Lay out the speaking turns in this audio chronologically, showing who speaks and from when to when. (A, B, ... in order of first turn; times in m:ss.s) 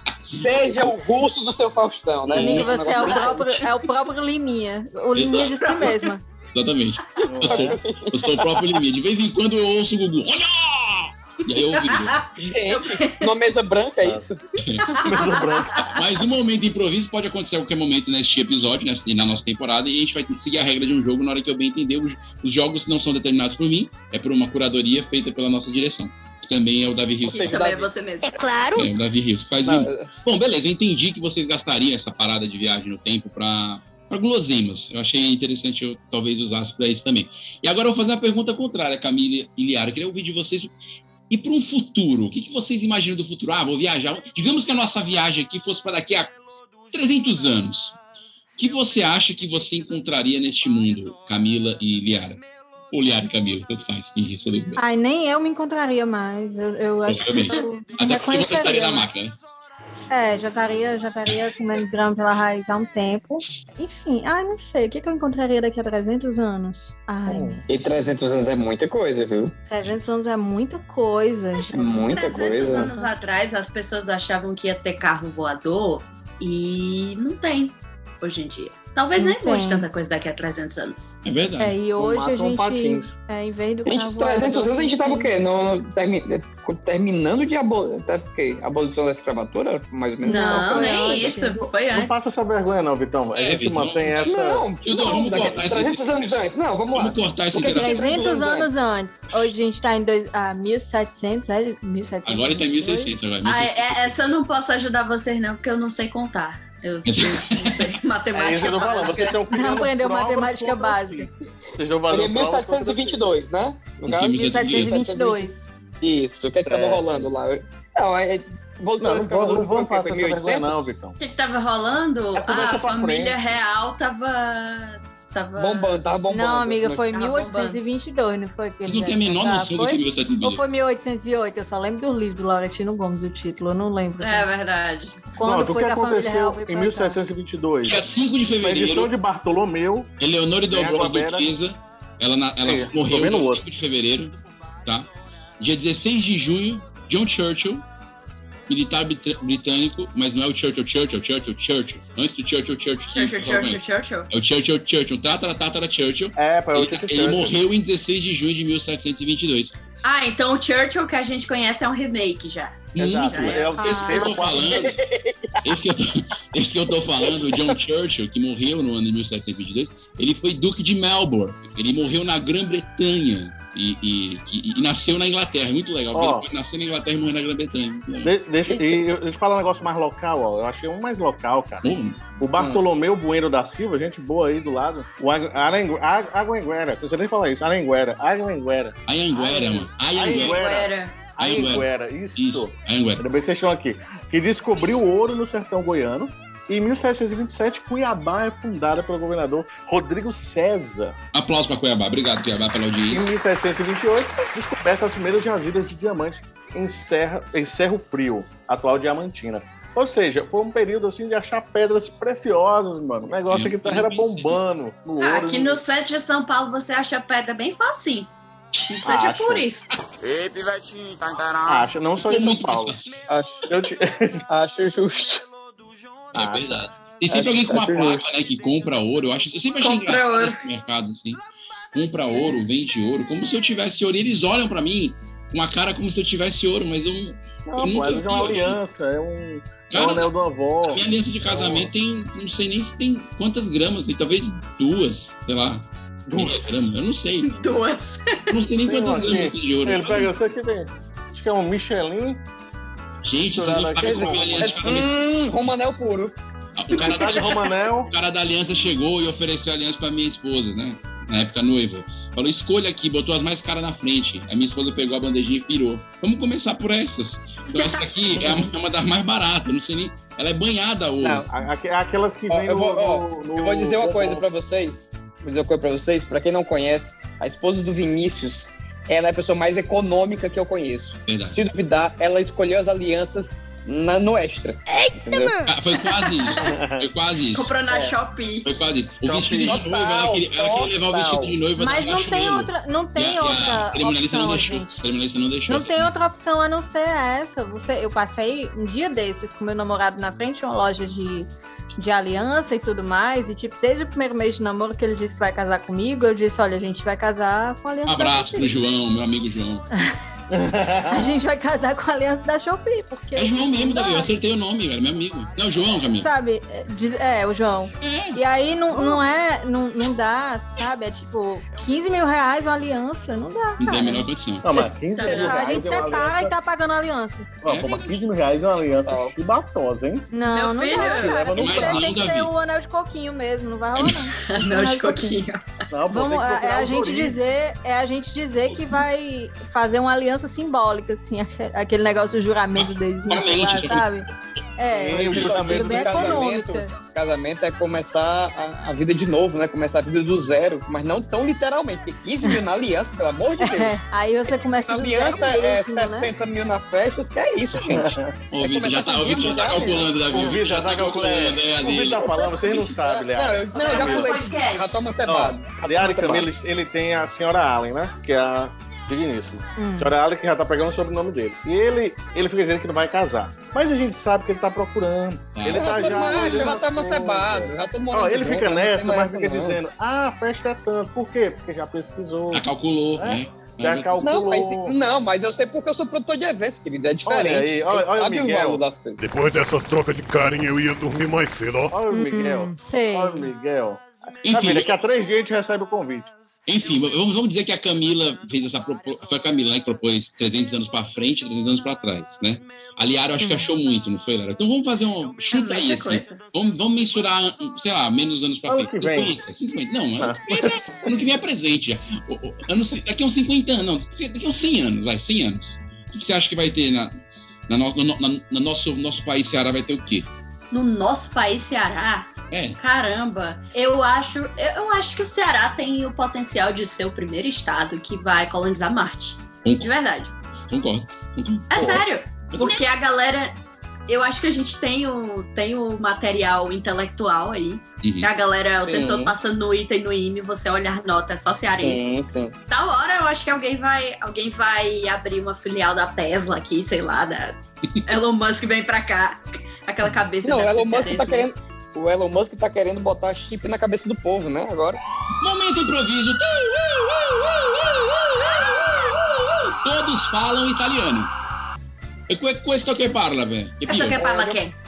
0:00.4-0:03.6 A
0:02.2-0:03.1 B
0:02.4-0:06.2 C
0:05.1-0:05.8 B
0:06.5-0:12.2 B
0:07.2-0:07.8 D
0:07.3-0:08.4 A
0:11.8-0:13.3 E
0:12.4-0:14.4 A
0:14.0-0:14.3 D
0:14.6-0:15.2 B
0:15.0-0:15.9 E
0:15.0-0:15.9 D
0:15.9-0:27.6 B
0:27.2-0:27.9 A
0:27.4-0:28.4 E
0:28.7-0:40.7 B
0:29.6-0:30.1 A
0:41.3-0:46.3 B
0:46.9-0:48.0 B
0:48.6-0:52.4 B
0:52.9-0:54.8 B
0:54.8-0:59.1 C
0:57.1-0:59.3 B
1:00.1-1:07.6 C
1:07.3-1:07.6 D
1:07.7-1:09.5 A
1:09.7-1:11.8 C
1:11.5-1:21.2 E
1:11.7-1:12.9 A
1:12.8-1:13.1 C
1:19.2-1:19.9 C
1:21.2-1:21.7 B
1:21.6-1:25.3 C
1:22.0-1:23.1 D
1:23.9-1:31.2 A
1:30.2-1:31.7 C
1:30.2-1:32.3 E
1:31.7-1:34.7 D
1:33.4-1:34.3 B
1:34.2-1:38.7 A
1:34.8-1:36.0 B
1:36.9-1:37.9 B
1:37.7-1:43.2 C
1:42.2-1:44.3 B
1:43.4-1:49.4 E
1:47.0-1:47.9 B
1:48.3-1:53.2 D
1:49.5-1:51.3 C
1:52.1-1:55.5 A
1:54.0-1:54.9 B
1:54.3-1:55.7 C
1:56.0-2:00.8 A
1:56.6-1:57.3 D
1:59.0-2:01.2 D
2:01.2-2:06.0 E
2:02.3-2:03.5 D
2:05.6-2:07.1 A
2:06.3-2:14.5 C
2:07.1-2:07.8 E
2:08.8-2:10.6 B
2:14.2-2:15.2 E
2:15.4-2:17.2 C
2:15.4-2:18.0 D
2:17.8-2:19.1 B
2:18.6-2:20.1 D
2:20.2-2:24.3 B
2:20.7-2:21.5 D
2:22.6-2:23.6 D
2:25.6-2:27.8 B
2:28.7-2:33.8 B
2:33.1-2:34.3 E
2:34.3-2:39.7 B
2:36.4-2:37.6 D
2:40.0-2:43.7 E
2:42.9-2:45.0 B
2:43.0-2:44.9 D
2:43.7-2:44.6 C
2:44.7-2:45.6 A
2:45.6-2:58.3 B
2:56.1-2:56.4 D
2:58.2-3:21.1 D
2:58.7-2:59.0 A
3:01.8-3:02.2 B
3:09.1-3:10.6 B
3:10.2-3:11.3 E
3:11.4-3:13.2 B
3:21.3-3:23.2 B
3:23.1-3:35.8 D
3:33.5-3:34.6 B
3:35.2-3:38.3 E
3:38.9-3:39.9 E
3:39.0-3:39.7 D
3:41.6-3:43.0 D
3:42.2-3:43.2 B
3:43.3-3:43.6 A
3:43.7-3:44.4 D
3:44.5-3:45.4 A
3:46.3-3:51.4 B
3:46.3-3:46.9 D
3:47.3-3:48.2 A
3:49.8-3:50.6 E
3:51.9-3:58.8 B
3:57.6-4:01.9 D
3:59.9-4:00.3 B
4:00.8-4:07.5 B
4:06.3-4:06.8 D
4:07.4-4:08.5 E
4:08.5-4:10.3 B
4:08.8-4:12.4 D
4:13.2-4:15.1 B
4:13.5-4:15.1 D
4:14.0-4:16.4 A
4:16.8-4:31.4 B
4:16.9-4:18.1 D
4:31.2-4:31.5 A
4:31.5-4:34.4 D
4:32.5-4:45.6 A
4:41.3-4:41.6 B
4:45.6-4:47.7 B
4:46.5-4:47.1 D
4:47.5-4:48.7 E
4:48.6-4:56.1 B
4:49.2-4:49.8 D
4:49.6-4:51.5 A
4:51.8-4:55.0 C
4:55.7-5:08.8 C
5:08.0-5:09.9 B
5:10.5-5:11.3 D
5:11.1-5:14.3 C
5:13.4-5:16.3 B
5:16.2-5:24.3 C
5:18.0-5:18.4 B
5:23.8-5:24.7 B
5:24.6-5:26.5 D
5:24.7-5:25.6 A
5:25.1-5:25.8 E
5:25.2-5:27.5 C
5:27.6-5:30.3 D
5:27.6-5:28.2 B
5:29.0-5:29.3 A
5:30.3-5:35.4 C
5:30.4-5:31.4 E
5:30.9-5:32.0 D
5:31.6-5:32.5 B
5:34.0-5:34.2 B
5:34.4-5:35.7 E
5:35.9-5:37.4 D
5:36.1-5:44.3 C
5:42.7-5:44.1 B
5:44.8-5:46.9 C
5:44.9-5:46.4 D
5:45.1-5:53.9 A
5:53.6-5:56.3 C
5:54.9-6:00.0 A
5:57.8-5:58.3 D
5:58.5-6:02.3 B
6:00.2-6:04.4 D
6:02.4-6:06.5 A
6:03.7-6:05.0 E
6:05.2-6:22.6 D
6:09.8-6:10.1 C
6:15.6-6:16.6 B
6:15.7-6:19.8 A
6:22.5-6:24.2 B
6:23.2-6:25.0 D
6:24.2-6:29.2 A
6:27.2-6:28.8 D
6:29.2-6:31.9 F
6:31.9-6:36.3 D
6:32.1-6:33.5 C
6:34.4-6:34.9 B
6:36.7-6:57.1 B
6:45.5-6:46.4 E
6:48.7-6:49.4 D
6:50.2-6:50.8 D
6:57.7-7:00.3 B
7:00.7-7:10.3 E
7:02.5-7:02.8 B
7:09.6-7:09.9 B
7:10.7-7:12.8 B
7:11.7-7:13.5 E
7:14.1-7:22.1 E
7:18.0-7:18.3 B
7:18.9-7:19.3 A
7:21.8-7:22.6 A
7:22.7-7:31.5 E
7:30.4-7:35.0 A
7:35.4-7:38.4 B
7:38.4-7:39.1 E
7:39.7-7:41.3 B
7:42.3-7:44.2 B
7:43.8-7:44.7 E
7:44.1-7:44.6 A